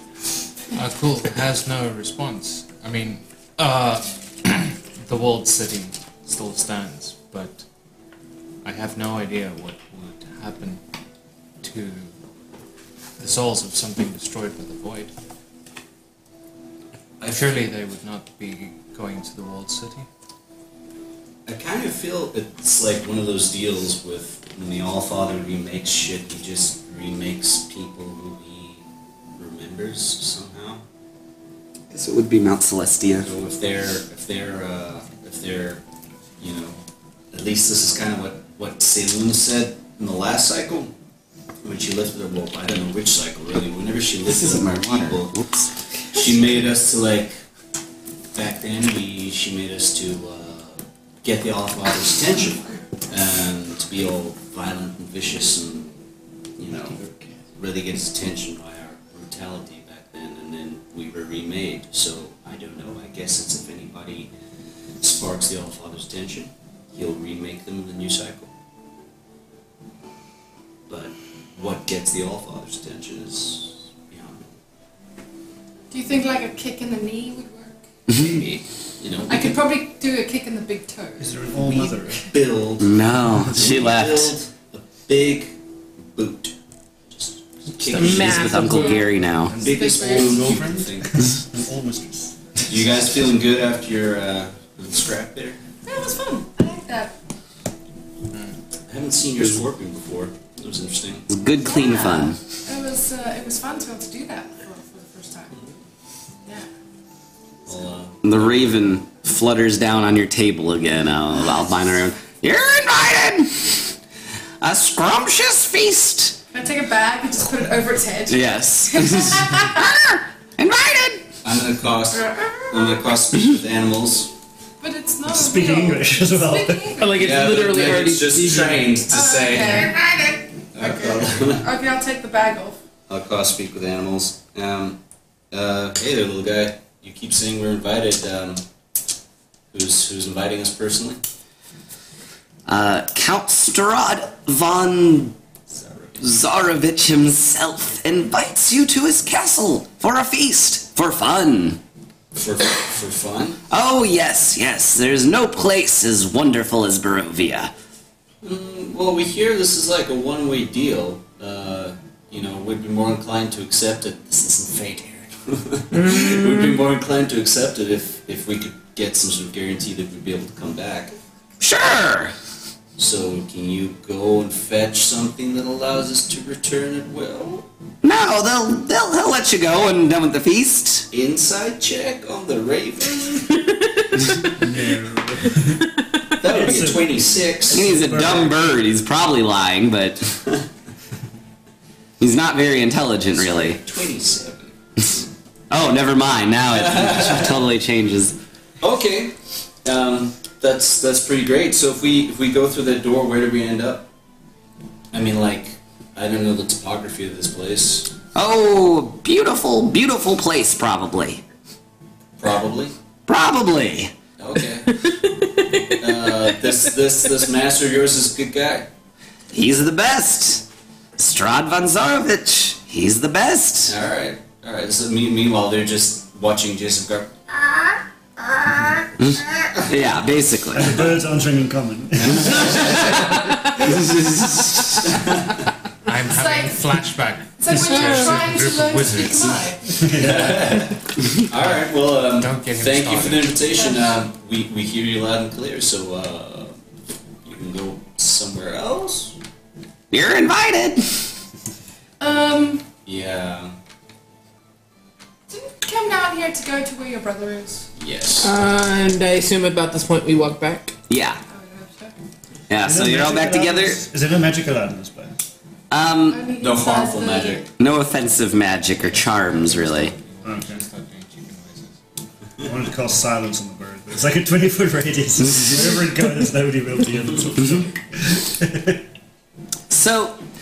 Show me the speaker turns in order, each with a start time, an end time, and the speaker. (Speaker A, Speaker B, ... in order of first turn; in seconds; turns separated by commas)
Speaker A: 0.7-7.7, Speaker A: 8.6-10.8, Speaker A: 11.6-12.1, Speaker A: 13.2-15.1, Speaker A: 17.2-20.1, Speaker B: 21.5-28.8, Speaker B: 29.4-30.8, Speaker C: 31.9-33.3, Speaker B: 33.2-35.8, Speaker B: 36.4-36.8, Speaker B: 37.3-40.9, Speaker B: 41.6-45.4, Speaker C: 44.3-46.2, Speaker B: 46.1-47.4, Speaker B: 48.3-56.0, Speaker B: 56.6-57.0, Speaker D: 56.7-57.4, Speaker B: 57.5-64.3, Speaker B: 65.0-68.5, Speaker B: 70.9-74.4, Speaker E: 75.9-77.8, Speaker C: 78.1-78.4, Speaker B: 78.1-79.7, Speaker E: 79.3-81.9, Speaker D: 81.2-82.2, Speaker B: 82.2-86.6, Speaker C: 82.8-84.4, Speaker B: 87.1-88.8, Speaker F: 87.8-89.1, Speaker C: 87.9-89.6, Speaker E: 88.6-90.7, Speaker D: 89.5-92.6, Speaker B: 89.5-91.4, Speaker B: 92.7-95.6, Speaker E: 95.9-97.2, Speaker B: 98.9-101.3, Speaker C: 101.3-102.4, Speaker E: 101.7-105.5, Speaker B: 107.7-109.0, Speaker C: 108.2-113.9, Speaker C: 114.6-116.4, Speaker E: 116.5-119.8, Speaker C: 118.3-121.3, Speaker B: 121.4-124.3, Speaker E: 122.1-123.2, Speaker E: 124.8-127.2, Speaker D: 125.3-127.1, Speaker F: 127.0-129.0, Speaker B: 127.1-131.7, Speaker E: 129.1-132.8, Speaker B: 133.1-135.0, Speaker B: 135.5-138.6, Speaker B: 139.7-141.2, Speaker C: 142.7-145.4, Speaker B: 145.7-146.2, Speaker C: 146.2-151.8, Speaker B: 152.4-153.6, Speaker C: 153.7-157.7, Speaker B: 158.4-171.2, Speaker F: 165.9-166.7, Speaker C: 171.6-172.3, Speaker B: 173.0-177.7, Speaker C: 178.0-181.1, Speaker B: 181.1-183.6, Speaker F: 184.2-184.5, Speaker D: 184.6-185.9, Speaker B: 186.4-188.0, Speaker D: 186.4-188.6, Speaker C: 187.7-190.4, Speaker C: 192.2-193.8, Speaker B: 193.3-195.3, Speaker C: 195.7-198.4, Speaker B: 196.7-197.7, Speaker B: 198.8-204.1, Speaker B: 205.1-208.2, Speaker C: 208.3-211.4, Speaker B: 212.4-212.9, Speaker C: 213.3-214.1, Speaker B: 214.4-215.1, Speaker F: 215.3-216.5, Speaker B: 216.0-218.9, Speaker C: 219.5-220.7, Speaker C: 221.2-223.9, Speaker B: 223.8-229.9, Speaker C: 229.2-231.0, Speaker D: 230.7-233.2, Speaker B: 232.2-233.6, Speaker C: 233.8-235.0, Speaker B: 235.0-235.6, Speaker A: 236.1-239.8, Speaker E: 236.2-236.9, Speaker E: 237.6-240.1, Speaker F: 237.9-238.4, Speaker D: 240.0-240.9, Speaker B: 240.1-246.8, Speaker A: 242.4-243.7, Speaker E: 243.8-244.0, Speaker B: 247.4-249.4, Speaker C: 250.1-251.3, Speaker E: 252.2-252.9, Speaker B: 253.1-253.8, Speaker E: 255.5-257.9, Speaker B: 258.0-258.5, Speaker F: 258.4-260.9, Speaker C: 261.1-261.4, Speaker E: 261.5-262.1, Speaker C: 262.7-264.0, Speaker D: 262.8-265.4, Speaker C: 265.9-266.5, Speaker E: 266.3-267.7, Speaker B: 266.6-267.7, Speaker C: 267.8-270.1, Speaker A: 269.2-272.0, Speaker D: 270.4-270.8, Speaker D: 272.6-279.1, Speaker C: 279.9-280.4